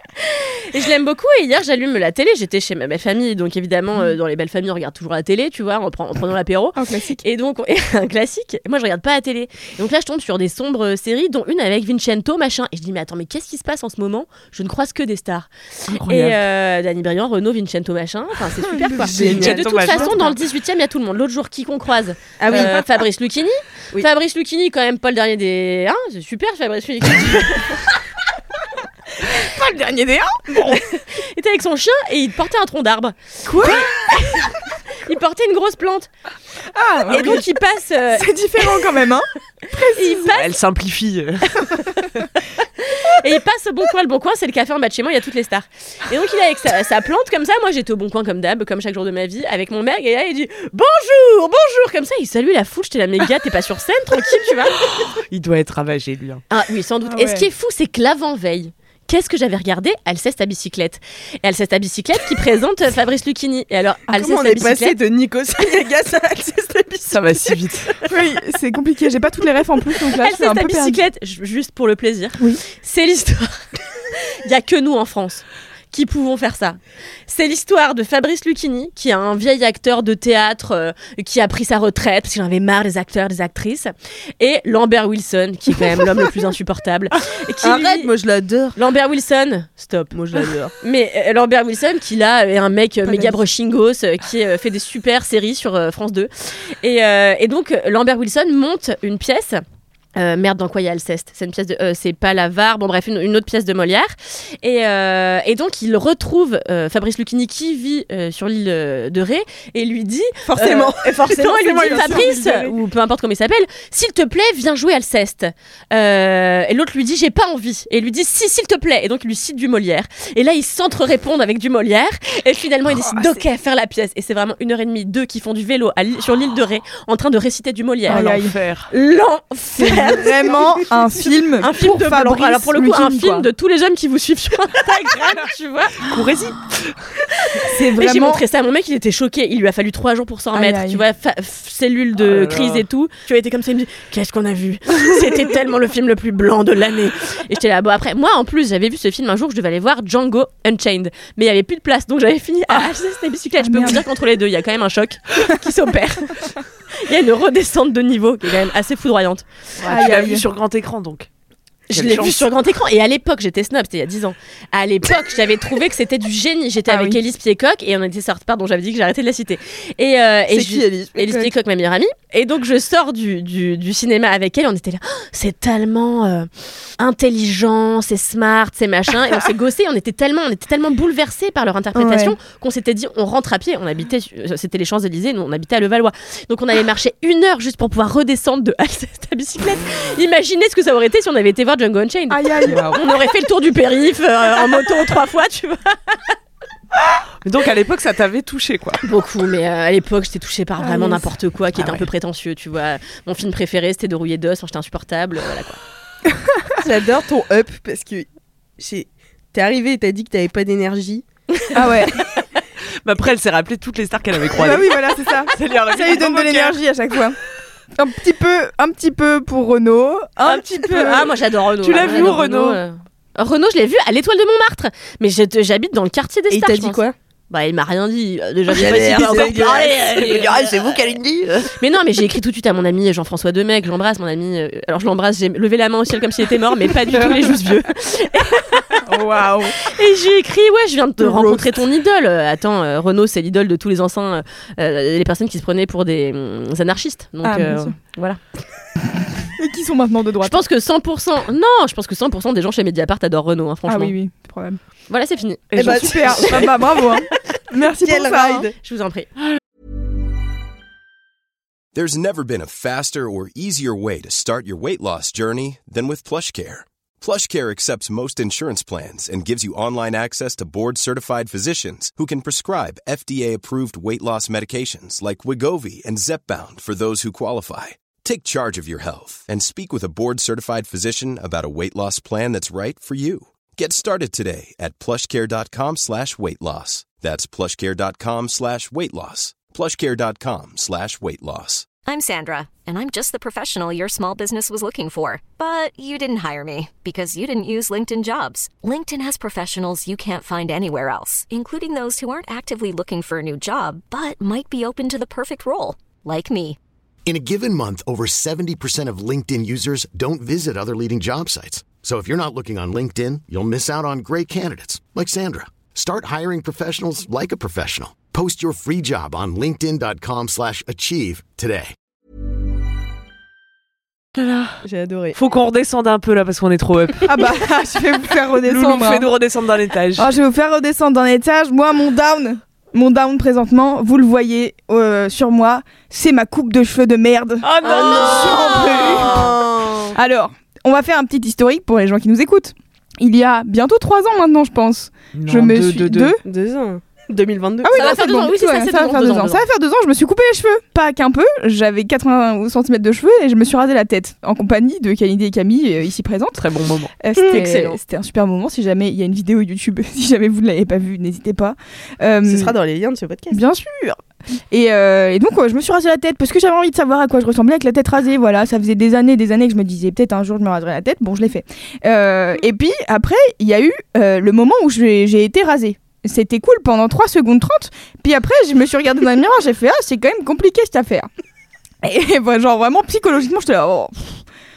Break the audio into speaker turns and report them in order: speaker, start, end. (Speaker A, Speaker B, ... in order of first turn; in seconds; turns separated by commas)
Speaker A: 0.2-27.8, Speaker B: 6.8-7.2, Speaker C: 15.9-16.4, Speaker B: 18.7-19.2, Speaker D: 18.8-20.0, Speaker C: 19.1-20.2, Speaker B: 19.8-20.1, Speaker D: 22.4-22.8, Speaker B: 29.3-30.8, Speaker A: 30.7-36.1, Speaker B: 33.5-34.5, Speaker B: 36.7-37.4, Speaker A: 37.1-38.3, Speaker B: 38.1-40.2, Speaker A: 39.9-40.6, Speaker C: 40.3-41.6, Speaker A: 42.8-54.8, Speaker C: 54.9-56.4, Speaker A: 56.5-65.0, Speaker B: 57.0-57.5, Speaker D: 64.1-67.6, Speaker C: 67.1-67.9, Speaker B: 68.1-71.0, Speaker A: 70.2-88.1, Speaker D: 87.6-88.8, Speaker A: 88.8-90.1, Speaker D: 90.1-90.7, Speaker A: 90.8-99.6, Speaker D: 93.0-93.4, Speaker A: 100.2-130.8, Speaker D: 110.5-112.6, Speaker C: 111.6-112.7, Speaker B: 123.1-123.4, Speaker B: 128.1-128.5, Speaker C: 128.1-128.9, Speaker B: 129.8-133.5, Speaker A: 131.6-136.1, Speaker C: 136.0-137.0, Speaker A: 137.3-160.0, Speaker B: 137.7-138.4, Speaker B: 140.5-141.0, Speaker C: 142.2-142.8, Speaker B: 153.6-154.0, Speaker B: 159.8-160.4, Speaker C: 159.9-161.3, Speaker C: 161.9-162.4, Speaker A: 161.9-196.3, Speaker B: 166.9-167.2, Speaker D: 170.5-171.4, Speaker B: 181.9-182.3, Speaker B: 192.3-192.9, Speaker C: 197.4-199.0, Speaker A: 199.0-205.8, Speaker B: 200.8-201.2, Speaker C: 201.8-202.1, Speaker D: 206.8-211.6, Speaker B: 211.7-212.2, Speaker C: 213.0-214.9, Speaker B: 214.5-217.4, Speaker C: 215.5-216.8, Speaker B: 218.0-221.3, Speaker A: 220.5-230.7, Speaker C: 221.8-222.8, Speaker B: 222.0-222.3, Speaker D: 222.0-222.3, Speaker D: 226.5-227.1, Speaker D: 228.7-229.9, Speaker C: 229.1-231.7, Speaker A: 231.8-239.0, Speaker B: 239.1-239.7, Speaker A: 239.8-248.4, Speaker B: 247.4-247.9, Speaker B: 249.4-250.6, Speaker A: 250.4-254.1, Speaker B: 253.9-254.8, Speaker A: 255.1-256.6, Speaker C: 255.7-256.6, Speaker B: 255.8-258.7, Speaker D: 255.8-256.7, Speaker D: 258.0-258.7, Speaker A: 258.8-259.3, Speaker E: 261.9-291.9, Speaker F: 292.1-306.8, Speaker G: 307.2-321.9, Speaker C: 324.3-324.8, Speaker D: 324.8-325.4, Speaker C: 325.3-327.3, Speaker B: 327.2-329.3, Speaker C: 328.7-330.3, Speaker B: 330.1-339.5, Speaker C: 337.6-339.2, Speaker D: 337.8-340.1, Speaker A: 337.8-339.5, Speaker B: 340.1-346.4, Speaker C: 345.3-346.4, Speaker D: 346.4-348.1, Speaker B: 347.8-356.7, Speaker A: 347.9-349.6, Speaker C: 356.6-357.1, Speaker B: 357.2-362.7, Speaker A: 357.5-358.0, Speaker D: 362.4-363.6, Speaker B: 363.5-364.2, Speaker B: 364.7-381.3, Speaker B: 382.0-384.4